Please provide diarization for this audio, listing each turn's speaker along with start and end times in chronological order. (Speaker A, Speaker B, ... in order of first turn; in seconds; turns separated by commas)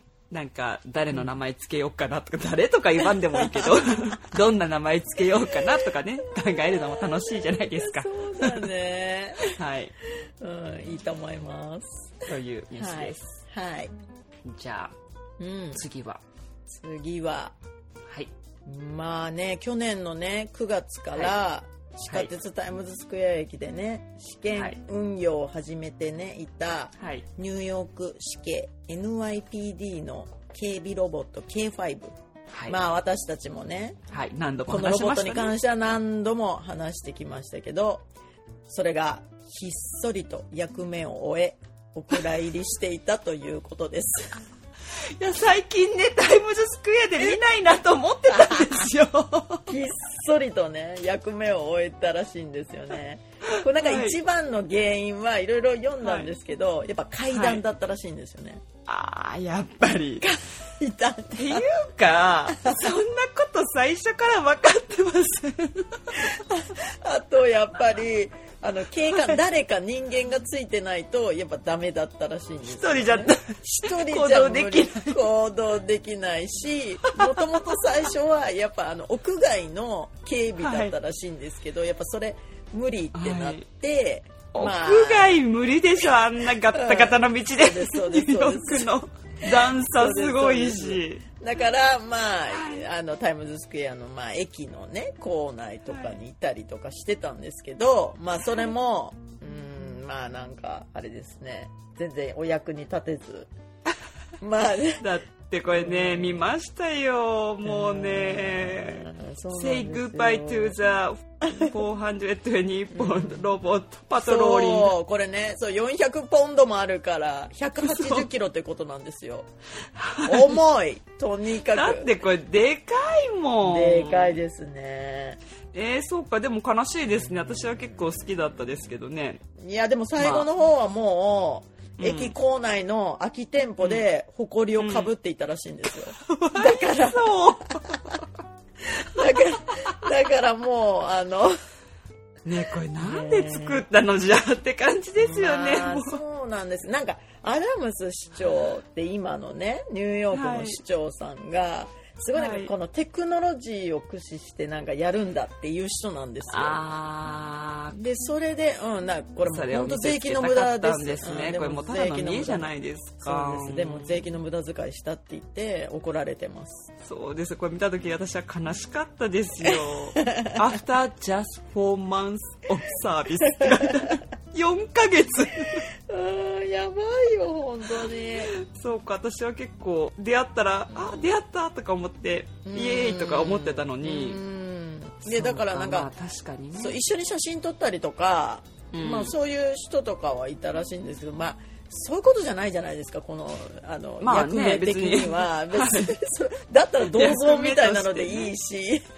Speaker A: 0.3-8.7, Speaker B: 3.0-4.2, Speaker B: 5.4-5.9, Speaker B: 6.4-9.5, Speaker A: 9.4-9.9, Speaker B: 10.2-13.9, Speaker A: 12.3-13.4, Speaker A: 14.4-14.9, Speaker B: 15.4-15.8, Speaker A: 15.7-16.2, Speaker B: 16.7-17.6, Speaker A: 18.1-18.3, Speaker B: 18.6-32.1, Speaker A: 21.1-21.4, Speaker A: 22.1-22.3, Speaker A: 27.0-27.3, Speaker A: 32.5-32.8, Speaker B: 32.7-34.0, Speaker A: 34.1-35.6, Speaker B: 34.6-38.0, Speaker B: 38.6-44.4, Speaker A: 45.2-49.7, Speaker B: 48.3-48.8, Speaker B: 49.7-58.6, Speaker A: 53.5-54.2, Speaker A: 56.0-56.3, Speaker A: 57.3-57.6, Speaker A: 58.9-60.4, Speaker B: 60.2-61.7, Speaker A: 61.3-66.3, Speaker B: 62.5-63.0, Speaker B: 66.1-85.4, Speaker A: 72.6-75.2, Speaker A: 77.0-77.4, Speaker A: 80.6-80.9, Speaker A: 83.1-83.6, Speaker A: 84.5-91.2, Speaker B: 86.7-103.5, Speaker A: 92.5-92.8, Speaker A: 95.9-96.2, Speaker B: 104.4-105.1, Speaker A: 105.0-114.9, Speaker B: 105.7-106.5, Speaker B: 107.6-110.8, Speaker B: 111.5-111.7, Speaker B: 112.9-113.5, Speaker B: 114.2-119.5, Speaker A: 117.8-118.3, Speaker A: 119.8-120.6, Speaker B: 120.2-122.1, Speaker A: 121.6-124.4, Speaker B: 123.6-125.4, Speaker A: 125.7-129.4, Speaker B: 129.6-138.2, Speaker A: 130.2-130.5, Speaker A: 132.0-132.3, Speaker A: 134.8-135.1, Speaker A: 136.2-138.3, Speaker B: 138.8-141.5, Speaker A: 139.2-140.1, Speaker A: 142.4-146.2, Speaker B: 142.9-143.8, Speaker B: 145.2-156.8, Speaker A: 150.3-150.8, Speaker A: 152.3-152.7, Speaker A: 156.5-158.0, Speaker B: 157.9-166.9, Speaker A: 159.4-164.2, Speaker A: 167.0-175.9, Speaker B: 169.6-170.6, Speaker B: 173.4-174.2, Speaker B: 175.5-178.5, Speaker A: 178.1-184.4, Speaker B: 182.7-186.1, Speaker A: 185.2-187.0, Speaker B: 186.8-199.0, Speaker A: 188.9-189.3, Speaker A: 194.2-196.1, Speaker A: 197.0-198.5